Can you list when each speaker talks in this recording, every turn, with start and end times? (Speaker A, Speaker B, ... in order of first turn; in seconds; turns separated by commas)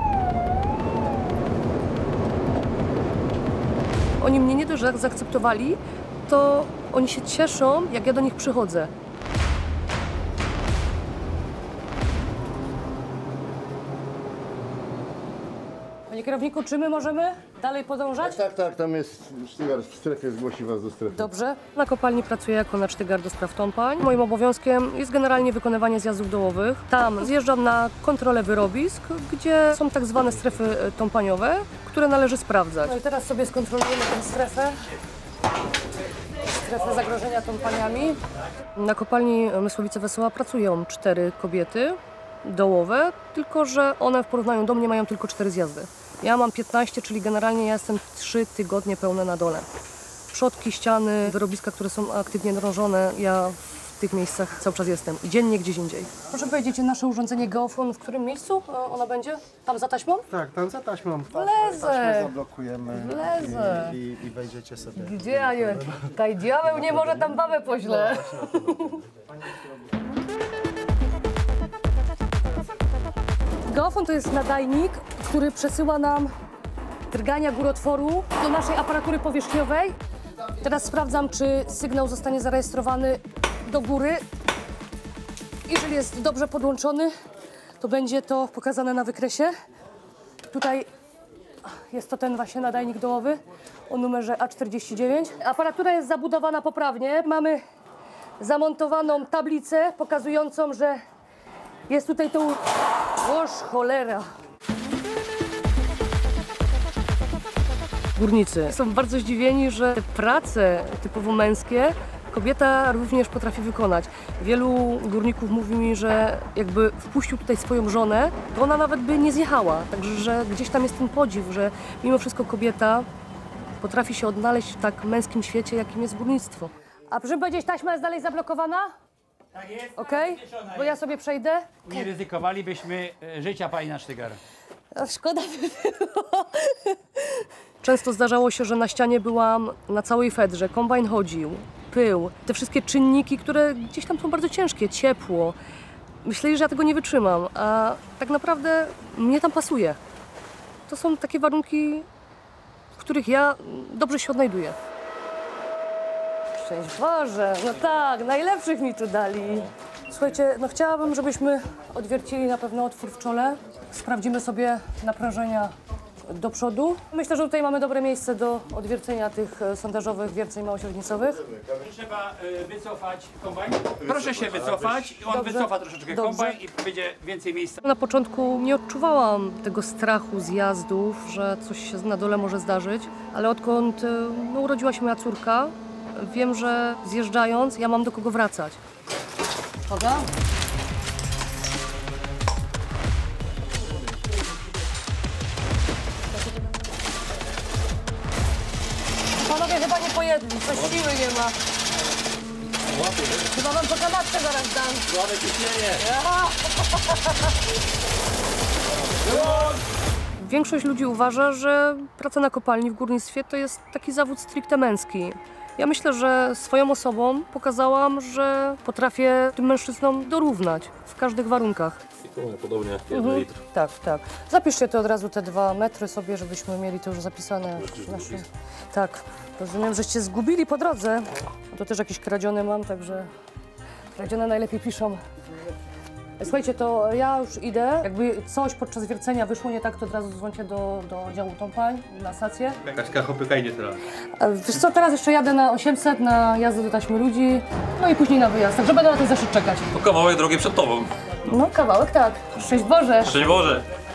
Speaker A: 4.2-8.9, Speaker A: 16.1-18.4, Speaker B: 18.2-21.3, Speaker A: 21.1-34.9, Speaker A: 36.5-38.2, Speaker A: 38.7-49.7, Speaker A: 50.3-60.4, Speaker C: 60.3-65.7, Speaker A: 61.3-64.0, Speaker A: 64.9-69.0, Speaker A: 73.7-76.3, Speaker A: 77.1-80.0, Speaker A: 80.5-84.2, Speaker A: 85.6-87.1, Speaker A: 87.8-89.5, Speaker A: 90.5-90.9, Speaker A: 91.6-97.6, Speaker A: 98.4-101.0, Speaker A: 101.9-104.3, Speaker A: 108.1-123.1, Speaker A: 123.8-128.9, Speaker D: 129.6-130.9, Speaker A: 129.9-132.0, Speaker D: 131.9-134.4, Speaker A: 134.9-145.6, Speaker A: 146.2-150.0, Speaker A: 150.9-152.1, Speaker A: 152.9-154.8, Speaker A: 156.5-171.5, Speaker D: 171.8-177.8, Speaker A: 175.3-176.6, Speaker A: 177.8-188.8, Speaker A: 189.9-190.3, Speaker A: 199.3-201.6, Speaker D: 203.0-203.3, Speaker E: 203.0-203.3, Speaker A: 203.5-205.1, Speaker D: 205.1-206.0, Speaker A: 206.0-207.3, Speaker D: 209.3-209.8, Speaker A: 210.4-222.0, Speaker E: 222.2-223.5, Speaker A: 223.1-233.3, Speaker A: 234.1-235.2, Speaker A: 236.4-242.8, Speaker E: 242.9-244.0, Speaker A: 244.2-249.9, Speaker E: 249.9-251.1, Speaker A: 251.4-253.4, Speaker E: 253.2-253.8